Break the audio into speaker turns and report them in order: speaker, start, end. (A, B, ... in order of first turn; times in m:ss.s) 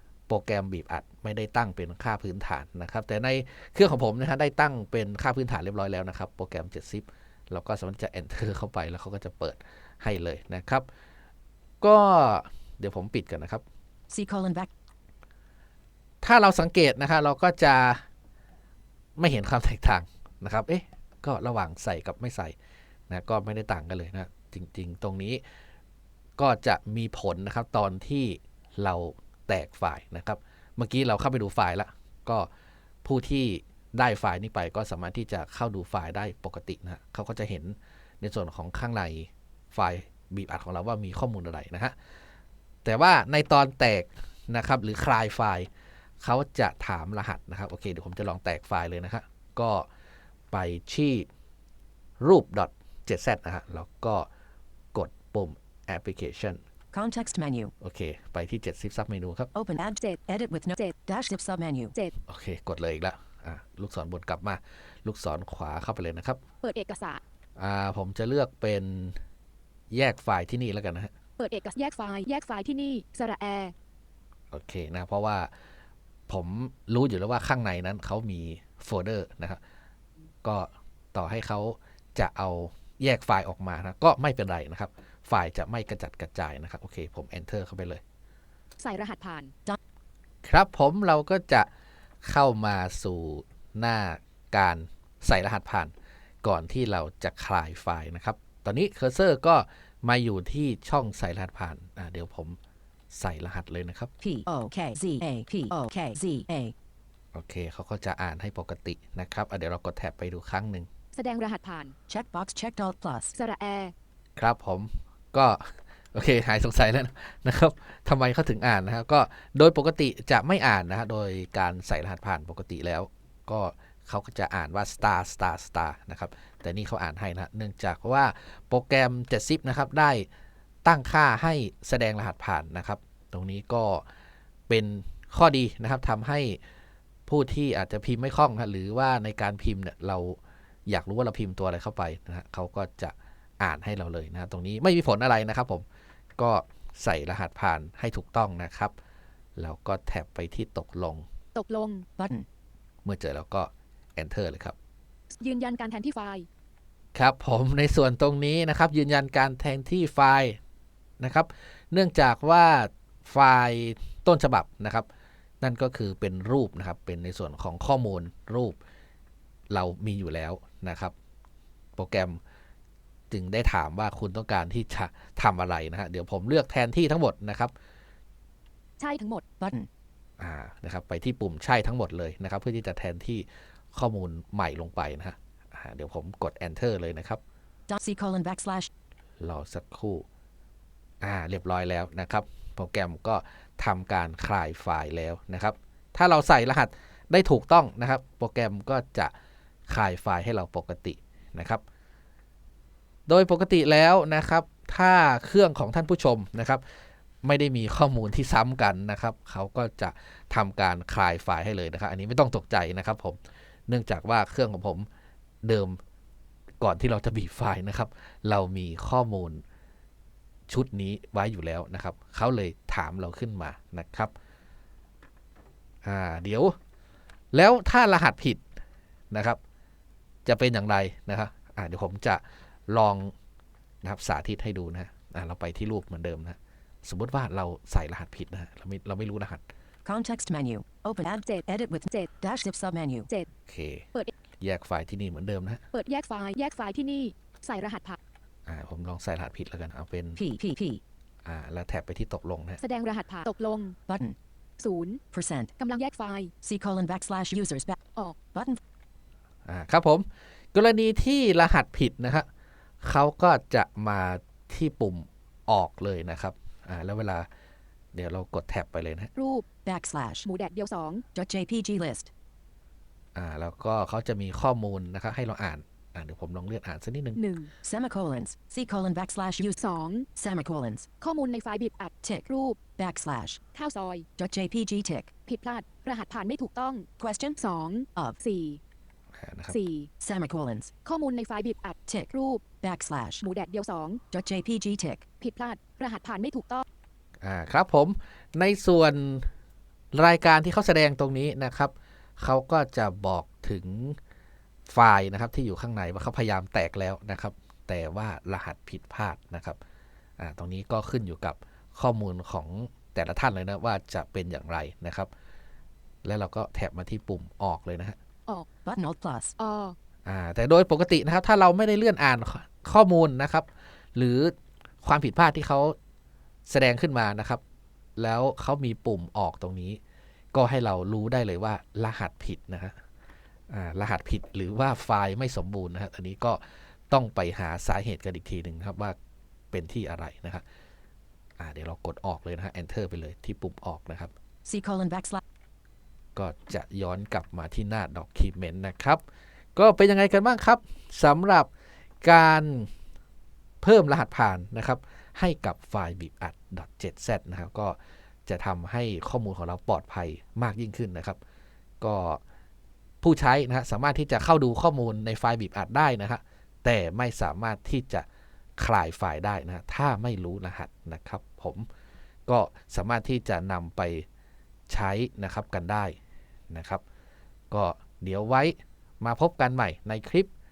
0:00.3-0:10.8 A
0:11.8-0:13.6 A
0:14.1-0:14.7 B
0:16.2-0:18.0 A
0:19.2-0:22.5 A
0:23.1-0:25.4 A
0:26.4-0:32.5 A
0:33.0-0:41.9 A
0:42.8-0:45.7 A
0:46.2-0:49.9 A
0:50.5-0:51.3 A
0:52.2-0:54.3 A
0:54.9-0:56.6 A
0:56.9-0:57.7 B
0:57.8-0:59.5 A
0:59.5-1:01.9 B
1:02.2-1:06.4 A
1:06.6-1:07.2 C
1:07.6-1:09.2 A
1:09.9-1:11.1 A
1:11.4-1:13.7 C
1:14.5-1:15.5 A
1:16.3-1:19.6 A
1:20.4-1:28.0 A
1:28.8-1:29.5 C
1:30.4-1:31.7 A
1:32.2-1:42.6 A
1:43.1-1:44.1 A
1:44.2-1:46.7 B
1:47.3-1:50.9 A
1:51.1-1:51.9 C
1:52.1-1:53.3 B
1:53.3-1:53.9 C
1:54.4-2:10.3 A
2:10.8-2:14.0 A
2:14.7-2:16.6 A
2:17.3-2:25.8 A
2:26.4-2:28.9 A
2:29.6-2:31.2 A
2:31.5-2:32.0 C
2:32.2-2:32.4 B
2:33.0-2:34.8 A
2:35.4-2:36.5 C
2:37.1-2:40.6 A
2:41.2-2:45.1 A
2:45.6-2:48.8 A
2:49.7-2:51.1 A
2:52.0-2:52.4 A
2:53.3-2:57.7 A
2:59.0-2:59.4 C
2:59.6-2:59.9 B
3:00.4-3:07.4 A
3:07.9-3:08.9 B
3:09.4-3:10.2 A
3:11.2-3:19.3 A
3:19.9-3:21.8 A
3:23.3-3:26.8 A
3:27.4-3:35.1 A
3:35.6-3:36.0 A
3:36.8-3:39.6 A
3:40.7-3:44.3 A
3:46.0-3:46.8 A
3:47.5-3:48.6 A
3:49.3-3:49.6 A
3:50.4-3:53.3 A
3:54.0-3:59.6 A
4:00.0-4:03.3 B
4:01.4-4:02.3 C
4:03.6-4:04.0 A
4:04.6-4:05.8 A
4:05.9-4:08.2 C
4:08.6-4:10.4 A
4:10.4-4:11.0 B
4:11.4-4:12.8 A
4:12.8-4:14.0 C
4:14.1-4:14.4 B
4:14.8-4:15.2 C
4:15.3-4:15.7 B
4:15.8-4:16.5 C
4:16.6-4:18.0 B
4:18.5-4:18.8 B
4:19.6-4:22.4 A
4:23.0-4:27.5 A
4:28.1-4:29.3 A
4:29.4-4:29.6 C
4:29.8-4:30.4 B
4:30.4-4:31.2 C
4:31.3-4:32.3 B
4:33.3-4:37.4 A
4:37.3-4:37.7 C
4:37.8-4:39.8 B
4:39.7-4:40.3 C
4:40.4-4:41.1 B
4:41.2-4:42.8 C
4:42.2-4:43.6 B
4:43.7-4:44.2 C
4:44.4-4:45.3 B
4:45.4-4:47.1 C
4:47.2-4:47.6 B
4:47.6-4:48.8 C
4:49.3-4:49.8 A
4:49.7-4:50.1 C
4:50.2-4:50.9 B
4:51.0-4:52.6 C
4:52.1-4:53.4 B
4:53.4-4:54.2 C
4:54.3-4:55.2 B
4:55.4-4:56.8 C
4:57.4-4:59.5 A
5:00.1-5:04.2 A
5:04.9-5:09.8 A
5:10.4-5:15.3 A
5:16.2-5:18.2 A
5:18.8-5:19.5 B
5:19.6-5:20.0 C
5:20.2-5:26.0 A
5:26.6-5:27.6 A
5:28.2-5:30.0 A
5:30.5-5:33.0 A
5:33.7-5:39.2 A
5:39.7-5:40.6 A
5:41.6-5:44.3 A
5:44.6-5:45.4 B
5:46.3-5:49.2 A
5:49.7-5:51.7 A
5:52.2-5:52.9 A
5:53.8-6:01.4 A
6:02.0-6:02.4 A
6:03.2-6:08.2 A
6:08.8-6:11.9 A
6:12.5-6:14.3 A
6:14.9-6:16.2 A
6:16.7-6:17.0 A
6:17.7-6:20.5 A